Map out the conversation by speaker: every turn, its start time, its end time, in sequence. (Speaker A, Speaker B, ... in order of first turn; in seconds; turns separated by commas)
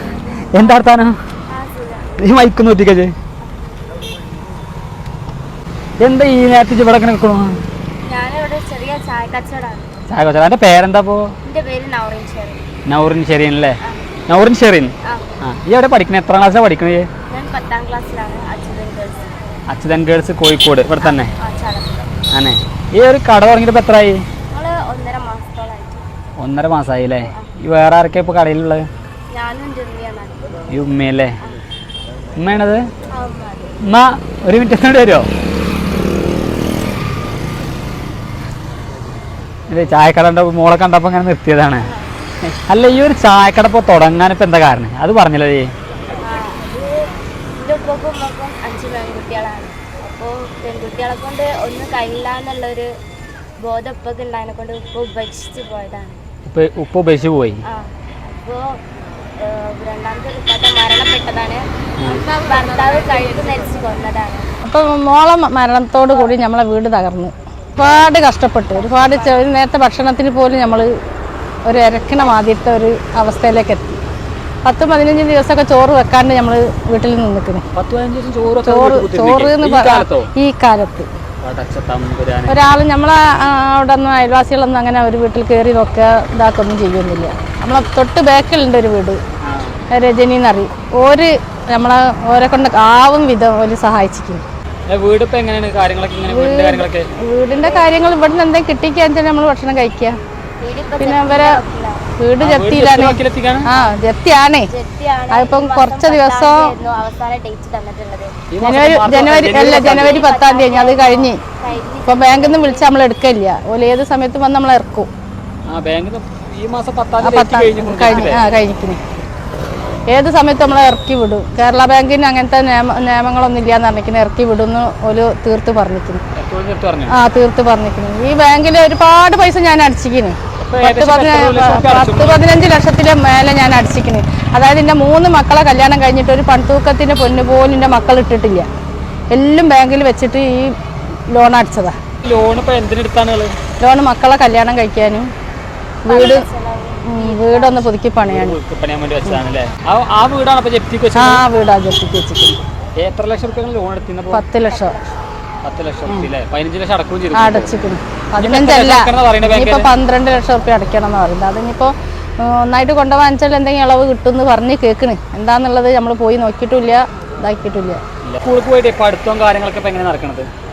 Speaker A: 0.5-1.1, Speaker B: 0.6-0.8, Speaker B: 1.5-2.1, Speaker A: 2.2-3.1, Speaker A: 6.0-7.6, Speaker B: 8.0-9.9, Speaker A: 10.1-11.3, Speaker B: 11.4-12.6, Speaker A: 12.8-17.1, Speaker B: 15.0-15.3, Speaker B: 17.3-19.4, Speaker A: 19.7-21.3, Speaker B: 21.0-22.1, Speaker A: 22.3-24.2, Speaker B: 24.5-26.1, Speaker A: 26.4-28.9, Speaker B: 29.3-30.5, Speaker A: 30.7-31.4, Speaker A: 32.4-32.9, Speaker B: 33.1-33.8, Speaker A: 33.8-35.3, Speaker A: 39.7-41.9, Speaker B: 41.8-42.1, Speaker A: 42.6-45.7, Speaker B: 46.2-52.9, Speaker B: 53.6-56.2, Speaker A: 56.5-57.6, Speaker B: 57.6-58.8, Speaker B: 59.4-61.6, Speaker C: 62.0-63.9, Speaker B: 62.4-64.5, Speaker C: 64.6-70.9, Speaker B: 68.7-69.5, Speaker C: 71.6-74.0, Speaker C: 74.6-77.6, Speaker A: 77.7-80.3, Speaker C: 78.6-81.1, Speaker A: 81.4-82.6, Speaker C: 82.5-89.2, Speaker A: 89.4-89.8, Speaker C: 89.9-94.4, Speaker A: 94.9-97.1, Speaker C: 96.3-100.2, Speaker B: 97.6-97.9, Speaker B: 100.6-102.1, Speaker C: 101.0-101.6, Speaker C: 102.2-104.7, Speaker A: 102.4-103.7, Speaker B: 104.7-108.4, Speaker C: 105.3-106.7, Speaker A: 108.5-110.2, Speaker C: 108.6-111.4, Speaker B: 109.6-112.9, Speaker C: 112.0-115.1, Speaker A: 115.7-118.4, Speaker C: 117.2-119.0, Speaker C: 120.1-126.2, Speaker A: 126.3-127.2, Speaker C: 127.1-138.7, Speaker A: 130.6-132.7, Speaker C: 139.3-140.7, Speaker C: 141.3-141.9, Speaker A: 142.2-143.6, Speaker C: 143.8-145.3, Speaker C: 146.0-146.5, Speaker B: 146.1-147.9, Speaker C: 147.0-148.6, Speaker A: 148.2-151.4, Speaker C: 151.1-152.6, Speaker A: 153.0-154.4, Speaker C: 154.3-154.9, Speaker B: 154.7-155.2, Speaker A: 155.6-157.7, Speaker C: 157.3-168.0, Speaker A: 158.4-159.9, Speaker A: 168.2-170.5